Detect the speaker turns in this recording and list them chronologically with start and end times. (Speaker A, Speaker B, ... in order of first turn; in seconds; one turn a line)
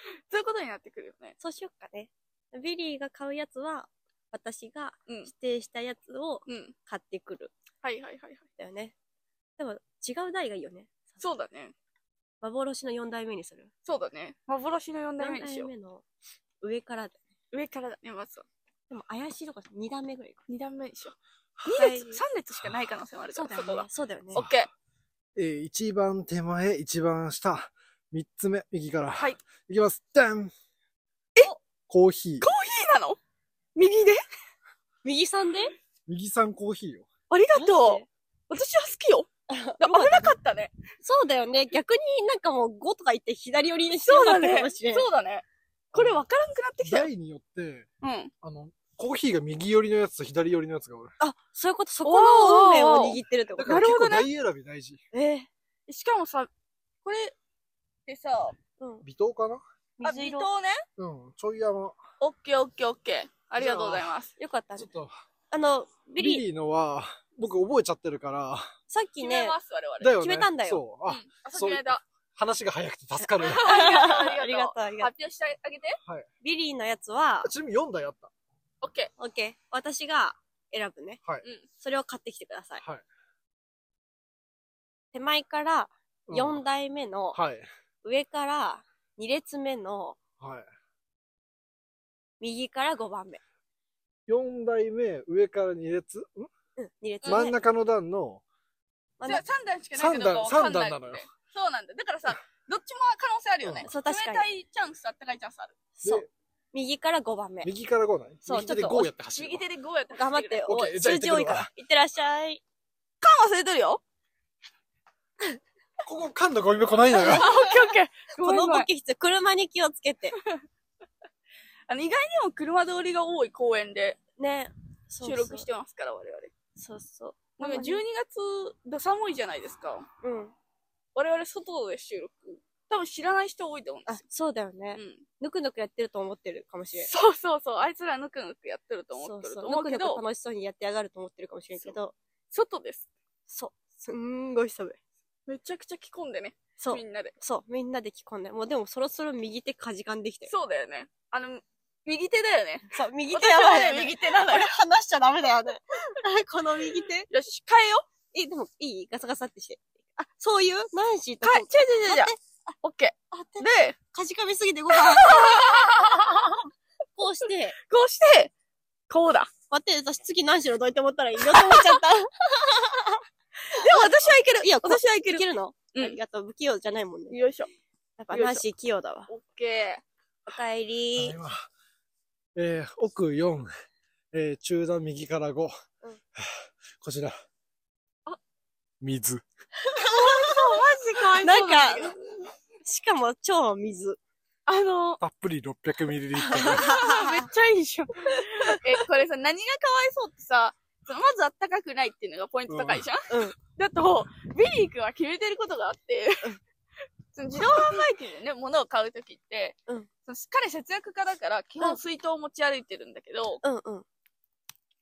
Speaker A: 0.1-1.4
Speaker B: 1.4-7.5
Speaker A: 6.5-6.7
Speaker A: 7.8-8.4
Speaker B: 8.6-8.9
Speaker B: 9.6-11.2
Speaker A: 11.2-11.7
Speaker B: 12.4-13.7
Speaker A: 13.8-15.7
Speaker B: 15.2-16.0
Speaker B: 16.6-17.2
Speaker A: 17.5-18.4
Speaker B: 18.9-20.4
Speaker A: 20.5-24.7
Speaker B: 21.7-22.2
Speaker B: 23.3-24.4
Speaker C: 25.4-30.5
Speaker C: 31.9-32.5
Speaker A: 32.4-33.2
Speaker A: 33.7-34.2
Speaker B: 35.0-35.7
Speaker C: 36.1-37.1
Speaker A: 37.3-39.3
Speaker B: 37.5-38.1
Speaker B: 39.5-40.3
Speaker A: 39.8-40.7
Speaker B: 41.0-45.0
Speaker A: 44.0-47.1
Speaker C: 45.9-46.2
Speaker C: 46.8-47.9
Speaker A: 48.0-48.3
Speaker C: 48.4-51.1
Speaker B: 51.2-53.7
Speaker A: 52.0-54.3
Speaker C: 53.5-55.0
Speaker B: 55.1-55.5
Speaker A: 55.9-56.5
Speaker A: 57.0-57.3
Speaker A: 58.1-58.6
Speaker C: 59.0-59.6
Speaker B: 60.0-60.5
Speaker A: 60.0-60.8
Speaker C: 61.0-62.0
Speaker A: 62.2-64.3
Speaker C: 63.5-64.1
Speaker B: 64.4-64.9
Speaker C: 64.8-65.2
Speaker B: 65.5-66.5
Speaker C: 66.2-68.7
Speaker B: 68.9-69.6
Speaker A: 69.2-70.1
Speaker C: 70.0-73.6
Speaker B: 70.2-70.8
Speaker A: 71.1-72.0
Speaker B: 73.4-75.1
Speaker A: 73.4-76.0
Speaker B: 76.4-77.5
Speaker C: 77.4-78.3
Speaker A: 78.8-79.1
Speaker B: 79.2-81.2
Speaker B: 81.8-82.8
Speaker B: 85.1-87.4
Speaker C: 86.3-86.6
Speaker C: 87.3-87.7
Speaker B: 88.0-90.2
Speaker C: 90.4-90.7
Speaker B: 92.4-93.4
Speaker C: 94.3-96.5
Speaker B: 96.8-97.6
Speaker A: 97.2-97.5
Speaker C: 97.2-98.4
Speaker A: 99.2-105.8
Speaker C: 99.9-101.2
Speaker C: 103.6-103.9
Speaker B: 103.8-104.5
Speaker B: 106.0-107.7
Speaker C: 106.0-106.3
Speaker C: 107.6-109.6
Speaker B: 108.4-109.1
Speaker A: 109.3-110.6
Speaker B: 110.1-112.6
Speaker C: 110.7-111.7
Speaker A: 113.2-114.0
Speaker C: 116.0-117.5
Speaker B: 117.1-120.4
Speaker A: 117.2-118.9
Speaker A: 121.9-124.2
Speaker B: 124.4-125.7
Speaker A: 125.2-126.5
Speaker B: 126.8-128.0
Speaker A: 127.6-130.1
Speaker B: 130.2-130.5
Speaker A: 131.1-134.2
Speaker B: 134.1-137.1
Speaker A: 134.9-135.2
Speaker A: 136.9-140.2
Speaker B: 139.2-142.1
Speaker A: 142.5-143.1
Speaker B: 143.5-145.0
Speaker A: 145.5-147.3
Speaker B: 146.8-150.5
Speaker A: 150.5-154.7
Speaker B: 152.9-157.3
Speaker A: 157.3-158.1
Speaker B: 158.3-162.4
Speaker A: 161.4-162.3
Speaker A: 162.8-163.9
Speaker B: 163.3-166.0
Speaker A: 165.0-166.7
Speaker B: 167.2-167.8
Speaker A: 167.9-168.5
Speaker A: 169.1-169.5
Speaker B: 169.7-177.4
Speaker A: 171.5-171.9
Speaker A: 173.7-176.2
Speaker A: 177.3-177.7
Speaker B: 178.2-179.3
Speaker A: 178.3-178.6
Speaker A: 179.3-180.0
Speaker B: 180.4-181.3
Speaker C: 181.1-181.7
Speaker C: 182.6-183.7
Speaker C: 184.3-185.7
Speaker C: 186.3-187.4
Speaker C: 189.0-189.4
Speaker B: 189.8-190.8
Speaker A: 190.0-192.2
Speaker B: 191.4-192.3
Speaker B: 192.8-194.2
Speaker A: 194.7-195.2
Speaker C: 195.2-196.9
Speaker B: 196.4-197.4
Speaker A: 196.6-206.6
Speaker B: 198.2-198.8
Speaker C: 202.7-203.0
Speaker B: 203.3-203.5
Speaker A: 207.3-213.6
Speaker B: 207.6-208.0
Speaker B: 213.6-214.0